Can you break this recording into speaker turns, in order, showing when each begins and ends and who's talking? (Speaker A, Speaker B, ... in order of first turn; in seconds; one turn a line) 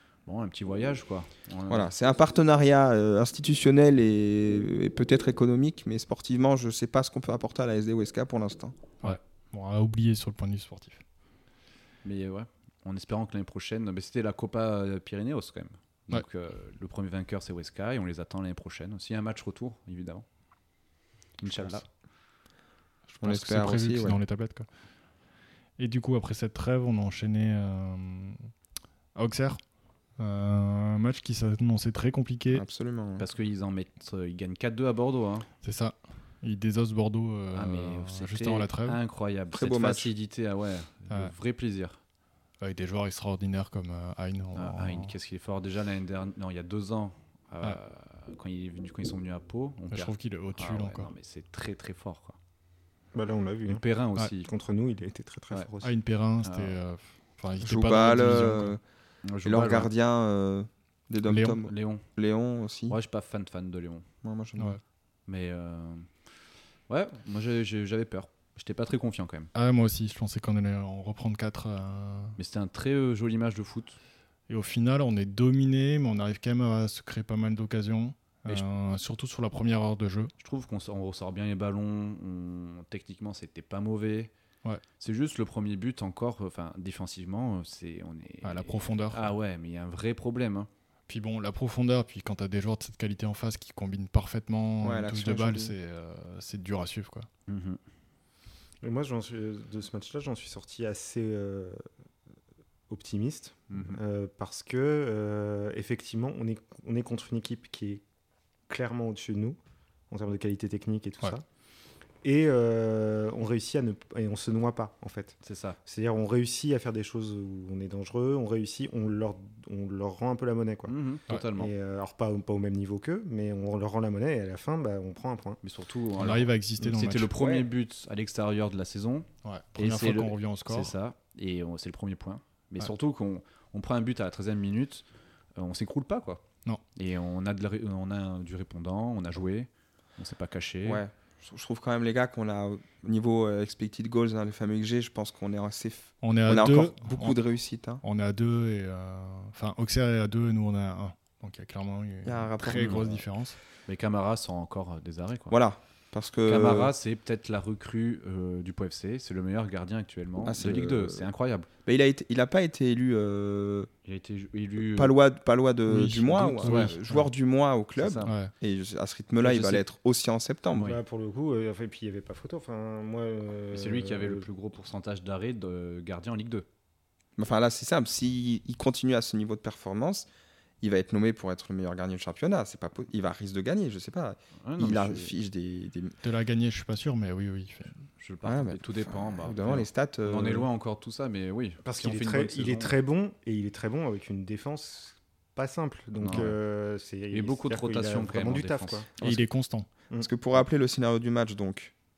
Speaker A: 0.2-1.9
Speaker B: 1.7-8.7
Speaker C: 9.0-11.0
Speaker A: 12.0-20.2
Speaker A: 21.4-21.9
Speaker C: 23.1-24.7
Speaker B: 23.2-24.2
Speaker C: 25.8-28.5
Speaker C: 29.1-29.6
Speaker C: 30.2-32.6
Speaker B: 32.5-33.2
Speaker A: 33.2-35.5
Speaker C: 35.6-39.0
Speaker A: 37.5-42.0
Speaker B: 39.5-40.1
Speaker C: 42.6-45.1
Speaker A: 44.5-52.4
Speaker C: 49.9-51.1
Speaker D: 53.1-55.9
Speaker A: 53.7-54.5
Speaker C: 55.8-58.7
Speaker A: 56.4-56.7
Speaker B: 57.6-58.8
Speaker A: 59.2-59.9
Speaker B: 59.4-63.0
Speaker C: 61.2-61.6
Speaker A: 61.6-62.0
Speaker A: 62.9-64.0
Speaker B: 64.2-64.8
Speaker A: 65.2-66.2
Speaker A: 66.9-69.5
Speaker C: 69.5-72.4
Speaker A: 72.4-74.0
Speaker C: 74.5-80.3
Speaker A: 80.4-84.3
Speaker A: 85.0-90.7
Speaker C: 88.4-89.3
Speaker C: 91.1-97.3
Speaker B: 94.8-95.7
Speaker A: 97.5-97.8
Speaker D: 98.8-101.8
Speaker D: 102.9-108.0
Speaker A: 103.7-104.0
Speaker D: 108.7-109.6
Speaker D: 110.1-111.4
Speaker D: 112.2-125.6
Speaker A: 115.4-115.8
Speaker A: 120.9-121.7
Speaker A: 125.6-141.0
Speaker C: 126.2-127.3
Speaker B: 127.3-127.7
Speaker C: 129.4-130.9
Speaker B: 140.8-148.0
Speaker C: 146.2-147.3
Speaker C: 148.0-153.6
Speaker B: 152.2-153.2
Speaker A: 152.7-153.0
Speaker A: 153.8-155.6
Speaker B: 155.5-156.9
Speaker A: 156.4-161.7
Speaker B: 160.4-161.3
Speaker B: 161.8-163.9
Speaker A: 164.0-165.1
Speaker B: 164.8-170.9
Speaker C: 165.9-167.3
Speaker A: 166.6-167.0
Speaker A: 168.0-168.4
Speaker C: 168.2-168.5
Speaker A: 169.4-169.8
Speaker A: 170.7-171.0
Speaker D: 170.8-174.4
Speaker A: 173.7-176.7
Speaker B: 177.4-180.3
Speaker B: 180.8-186.1
Speaker A: 184.6-185.3
Speaker C: 186.2-187.9
Speaker A: 188.2-192.9
Speaker B: 188.4-190.7
Speaker D: 191.8-199.1
Speaker A: 196.2-196.6
Speaker A: 197.3-199.1
Speaker B: 199.2-199.4
Speaker C: 199.2-199.9
Speaker B: 200.1-201.9